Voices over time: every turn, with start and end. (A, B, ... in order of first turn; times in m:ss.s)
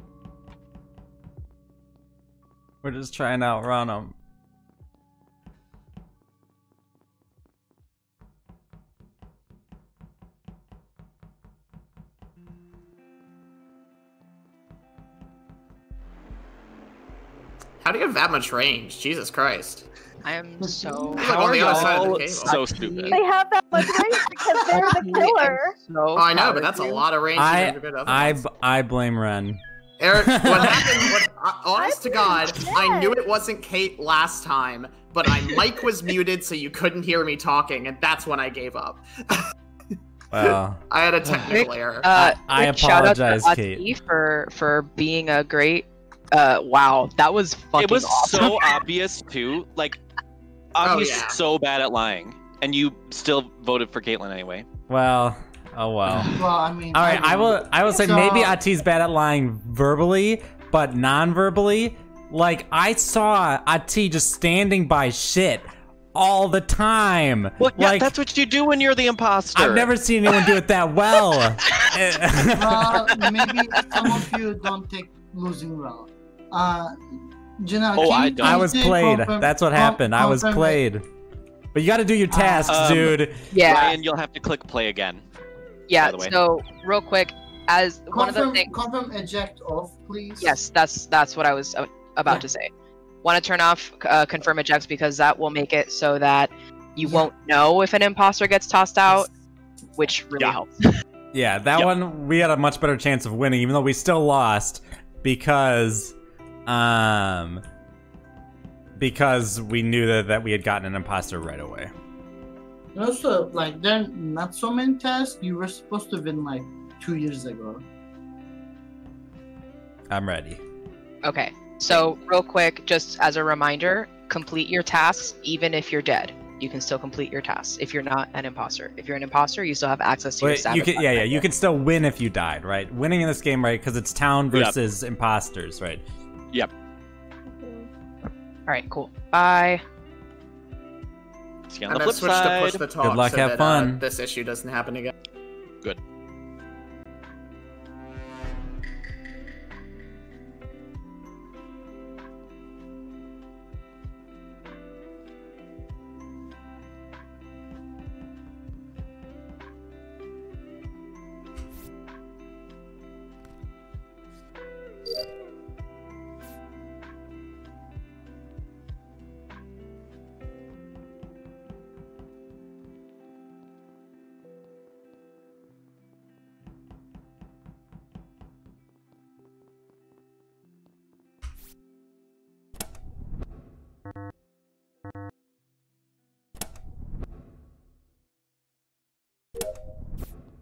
0:02.8-0:04.1 A
0:17.8-0:19.9 B
0:20.2-0:23.2 C
0:20.6-0:21.2 D
0:21.2-0:22.6 B
0:21.2-0:23.2 E
0:23.1-0:25.8 F
0:24.7-0:27.0 C
0:26.1-0:28.4 B
0:27.4-0:29.6 A
0:30.0-0:39.4 B
0:30.2-0:31.2 A
0:31.8-0:33.2 F
0:40.3-0:41.5 A
0:40.4-0:42.2 B
0:41.5-0:48.8 C
0:42.3-0:43.9 A
0:47.8-0:50.0 E
0:50.7-0:54.7 E
0:50.8-0:51.4 B
0:54.9-0:56.3 A
0:56.0-0:56.4 E
0:56.3-0:58.6 D
0:56.9-1:08.1 A
1:07.6-1:09.9 E
1:09.5-1:13.1 A
1:12.5-1:20.8 D
1:18.0-1:18.7 E
1:18.4-1:21.0 A
1:21.7-1:23.4 A
1:22.3-1:22.8 D
1:22.7-1:25.2 E
1:23.5-1:24.0 C
1:25.9-1:28.7 C
1:26.0-1:26.4 E
1:28.1-1:30.6 D
1:30.4-1:32.7 C
1:33.2-1:39.3 C
1:40.0-1:40.8 C
1:41.3-1:46.1 A
1:46.7-1:47.6 A
1:49.0-1:51.9 A
1:52.9-1:57.8 D
2:00.1-2:00.6 A
2:01.2-2:11.5 C
2:10.4-2:16.0 A
2:17.6-2:17.9 F
2:18.7-2:19.8 C
2:21.7-2:22.8 E
2:21.9-2:25.1 B
2:23.0-2:24.0 A